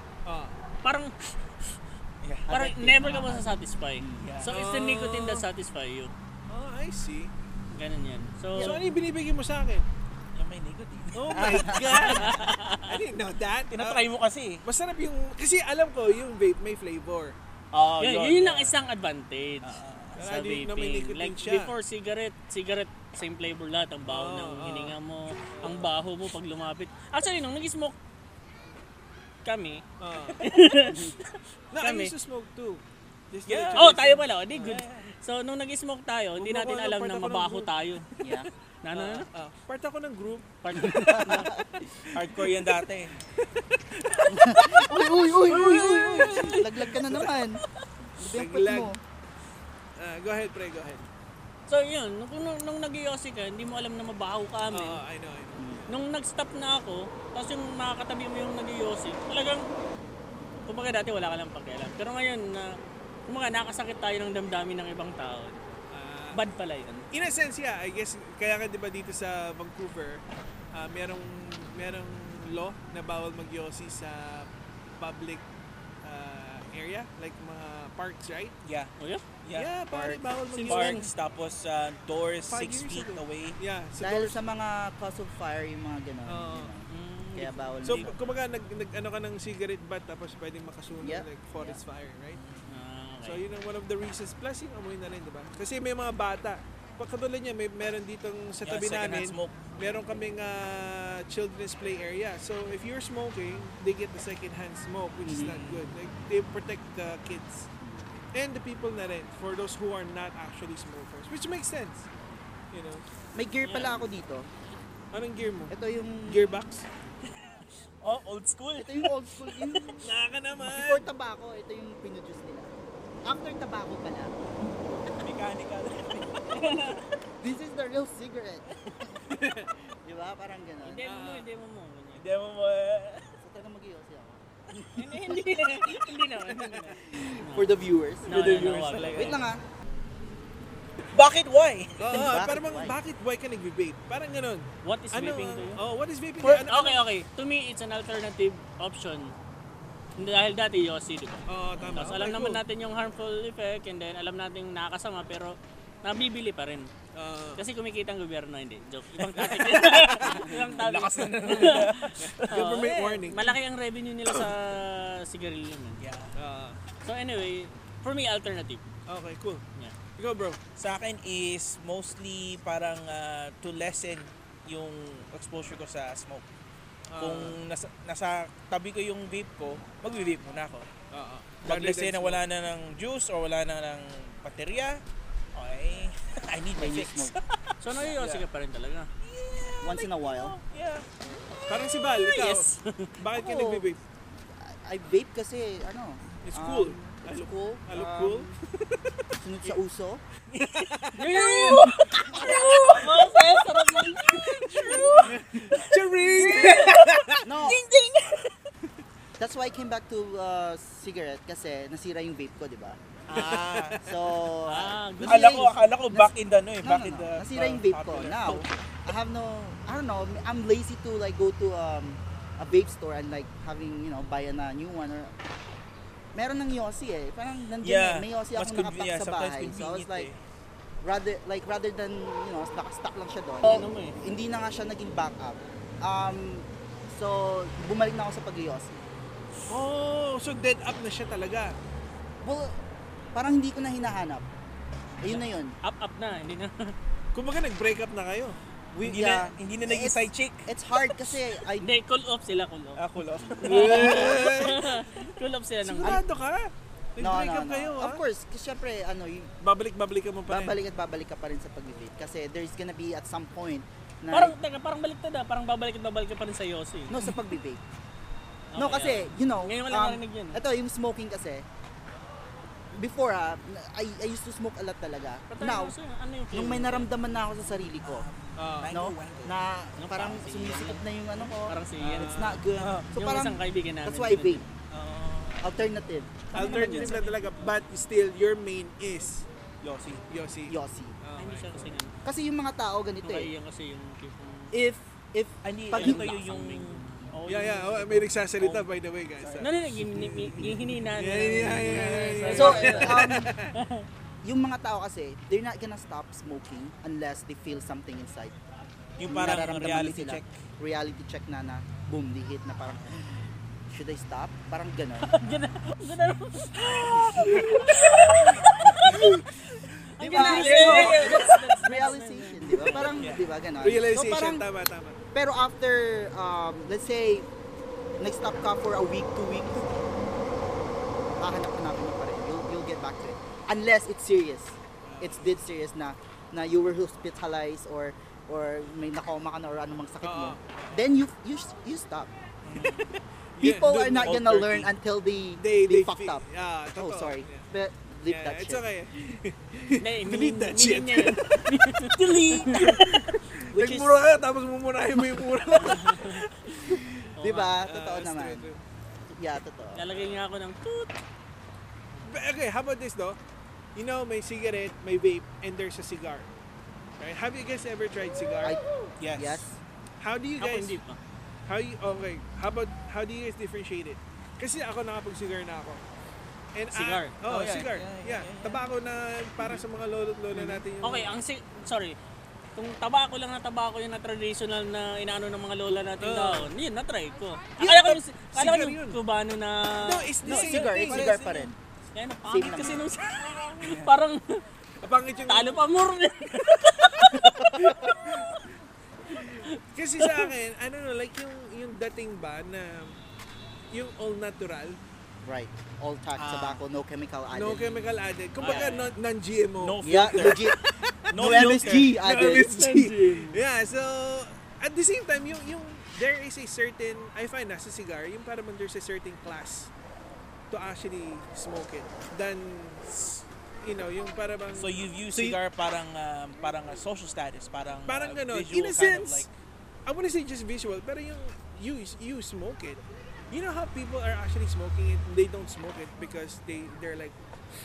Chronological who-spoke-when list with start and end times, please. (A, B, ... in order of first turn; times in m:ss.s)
0:00.2-0:00.5 A
0:00.8-0:01.1 B
0:02.2-0:02.5 C
0:02.5-0:04.3 D
0:02.5-0:06.1 B
0:04.2-0:04.5 C
0:04.5-0:05.4 A
0:06.5-0:07.3 A
0:07.7-0:08.8 B
0:08.5-0:09.8 A
0:10.3-0:11.8 C
0:11.1-0:14.0 A
0:11.3-0:12.2 D
0:11.9-0:13.0 B
0:13.7-0:14.6 C
0:14.6-0:17.3 A
0:17.7-0:18.8 C
0:18.0-0:28.0 B
0:19.6-0:20.2 C
0:20.2-0:21.7 A
0:24.0-0:24.9 A
0:25.5-0:25.9 A
0:29.4-0:29.8 B
0:30.0-0:30.4 A
0:30.4-0:32.1 B
0:30.9-0:31.1 D
0:31.7-0:34.3 A
0:33.5-0:33.9 C
0:33.8-0:38.1 B
0:34.5-0:35.1 C
0:36.4-0:37.7 A
0:38.2-0:38.5 D
0:38.8-0:39.3 B
0:38.9-0:42.4 A
0:40.6-0:41.5 B
0:40.7-0:41.6 D
0:42.1-0:43.2 C
0:43.4-0:47.3 A
0:44.3-0:47.6 D
0:45.5-0:46.6 B
0:48.2-0:49.0 D
0:48.2-0:48.9 A
0:50.0-0:51.0 A
0:51.7-0:55.0 B
0:54.7-0:55.6 A
0:55.6-0:55.9 D
0:55.9-0:59.7 B
1:00.6-1:05.8 B
1:05.9-1:06.4 A
1:06.3-1:07.1 B
1:07.1-1:15.4 A
1:16.0-1:18.5 A
1:18.6-1:23.6 C
1:19.0-1:19.2 B
1:19.5-1:21.1 A
1:20.5-1:21.1 B
1:22.5-1:24.4 A
1:24.0-1:28.1 D
1:26.3-1:26.7 A
1:26.9-1:28.0 B
1:27.8-1:32.4 A
1:31.0-1:31.8 D
1:32.3-1:32.8 C
1:32.7-1:33.4 B
1:33.2-1:47.7 A
1:38.6-1:39.7 C
1:45.2-1:45.6 D
1:45.4-1:45.9 C
1:47.8-1:48.1 D
1:48.3-1:52.1 A
1:52.7-1:53.0 A
1:53.3-1:54.5 D
1:53.6-1:54.0 B
1:55.1-1:55.7 A
1:55.7-1:56.5 D
1:56.3-1:56.8 A
1:57.2-2:00.0 C
1:58.8-2:04.4 D
2:00.0-2:01.0 A
2:05.2-2:07.0 C
2:06.5-2:07.0 B
2:07.4-2:11.2 D
2:10.8-2:12.2 B
2:11.0-2:11.4 A
2:12.2-2:13.3 C
2:13.4-2:15.7 D
2:14.9-2:19.4 B
2:17.0-2:19.6 D
2:18.3-2:19.4 C
2:21.1-2:22.2 C
2:22.0-2:27.0 A
2:22.1-2:23.0 D
2:24.8-2:25.8 B
2:26.4-2:29.3 B
2:30.2-2:36.9 B
2:31.5-2:32.6 A
2:31.8-2:32.1 C
2:37.1-2:37.6 A
2:37.6-2:46.0 B
2:39.4-2:42.8 C
2:41.6-2:43.6 A
2:46.0-2:46.4 C
2:46.4-2:46.8 A
2:47.0-2:48.9 B
2:49.1-2:49.6 A
2:50.2-2:50.6 A
2:50.8-2:56.4 C
2:57.1-2:57.6 A
2:57.2-3:00.9 C
3:01.1-3:02.4 A
3:01.6-3:05.0 C
3:05.5-3:08.1 C
3:06.7-3:07.4 D
3:07.8-3:09.1 B
3:08.2-3:08.4 A
3:09.2-3:11.1 C
3:09.8-3:10.5 D
3:11.6-3:14.0 A
3:12.3-3:13.1 B
3:13.3-3:13.9 D
3:14.6-3:18.5 D
3:16.4-3:19.1 A
3:19.4-3:20.2 D
3:20.5-3:23.1 C
3:20.7-3:21.3 A
3:21.1-3:25.1 B
3:21.5-3:22.7 D
3:24.3-3:25.9 C
3:24.4-3:25.4 D
3:24.8-3:27.4 A
3:26.4-3:28.5 C
3:26.5-3:26.8 D
3:27.4-3:27.8 D
3:29.4-3:33.0 D
3:33.3-3:34.0 C
3:33.3-3:34.1 A
3:34.0-3:45.3 D
3:34.7-3:35.6 B
3:35.2-3:38.7 C
3:46.3-3:50.3 D
3:47.8-3:50.4 C
3:51.0-3:59.0 D
3:53.6-3:54.2 B
3:59.7-4:01.7 A
4:02.4-4:02.8 D
4:03.3-4:04.5 D
4:05.2-4:05.7 D
4:05.3-4:06.9 B
4:07.3-4:08.6 A
4:08.9-4:11.9 D
4:09.0-4:11.4 C
4:11.8-4:13.0 B
4:13.0-4:14.4 C
4:13.6-4:16.2 B
4:13.6-4:15.0 A
4:13.8-4:14.2 D
4:15.8-4:18.2 A
4:17.2-4:19.5 D
4:19.6-4:20.8 A
4:20.5-4:24.5 D
4:24.3-4:27.2 B
4:27.1-4:27.8 D
4:28.7-4:30.6 B
4:28.7-4:31.6 D
4:32.9-4:36.0 D
4:35.5-4:37.1 B
4:36.5-4:38.3 D
4:38.0-4:39.5 C
4:38.6-4:38.9 A
4:38.9-4:44.6 D
4:40.0-4:42.6 B
4:42.0-4:42.9 A
4:43.1-4:44.7 B
4:44.9-4:45.7 C
4:45.6-4:47.2 D
4:46.5-4:47.5 B
4:46.5-4:49.4 A
4:49.8-4:50.2 C
4:50.3-4:51.9 A
4:50.7-4:51.2 D
4:51.4-4:52.2 B
4:52.2-4:53.5 D
4:53.2-4:54.7 B
4:54.7-4:56.3 D
4:55.6-4:57.0 C
4:55.9-4:58.2 B
4:57.5-5:03.7 A
4:57.9-4:58.9 C
4:59.4-5:00.7 C
4:59.6-5:04.1 B
5:02.4-5:02.9 C
5:02.5-5:03.5 D
5:04.4-5:08.5 D
5:09.2-5:10.5 C
5:09.2-5:15.4 D
5:15.2-5:19.2 B
5:17.1-5:17.6 C
5:17.2-5:17.6 D
5:18.8-5:19.4 D
5:20.2-5:23.3 B
5:20.2-5:24.6 D
5:20.3-5:21.3 A
5:20.4-5:21.4 C
5:23.2-5:23.4 C
5:23.8-5:25.2 A
5:25.3-5:27.5 D
5:28.2-5:29.9 D
5:31.4-5:42.3 D
5:35.0-5:35.4 A
5:40.2-5:41.0 A
5:42.6-5:43.2 C
5:42.8-5:44.8 A
5:43.6-5:48.8 D
5:44.2-5:44.8 C
5:45.6-5:47.7 A
5:48.3-5:51.7 A
5:50.0-5:53.2 B
5:52.1-5:53.0 C
5:53.4-5:57.2 A
5:53.7-5:54.1 D
5:55.7-5:56.4 B
5:56.8-5:58.7 D
5:57.4-5:57.8 B
5:57.8-5:58.8 A
5:59.3-6:00.1 D
5:59.9-6:01.2 B
6:02.2-6:03.4 A
6:03.9-6:06.5 A
6:07.2-6:08.8 A
6:08.6-6:09.8 D
6:09.2-6:09.7 C
6:10.2-6:11.0 A
6:10.6-6:11.2 B
6:11.6-6:16.0 A
6:16.7-6:21.4 A
6:16.9-6:17.4 B
6:17.4-6:18.8 C
6:21.0-6:22.2 B
6:22.8-6:30.3 B
6:26.2-6:26.7 A
6:27.8-6:29.2 A
6:30.0-6:31.4 A
6:30.4-6:31.7 D
6:30.5-6:31.7 C
6:32.1-6:34.6 B
6:32.4-6:33.1 D
6:33.8-6:34.1 C
6:35.0-6:35.8 A
6:35.5-6:38.5 B
6:37.4-6:38.1 D
6:37.8-6:38.6 A
6:39.3-6:43.1 A
6:39.3-6:40.5 B
6:43.9-6:45.0 A
6:45.4-6:48.0 D
6:46.4-6:46.8 C
6:47.5-6:59.9 A
6:48.6-6:49.1 B
6:48.6-6:49.0 C
6:49.8-6:50.6 C
6:50.0-6:50.8 D
6:51.3-6:52.2 C
6:51.3-6:53.0 D
6:53.0-6:53.3 B
7:00.7-7:05.6 A
7:04.7-7:09.5 C
7:08.0-7:09.5 A
7:10.0-7:17.4 A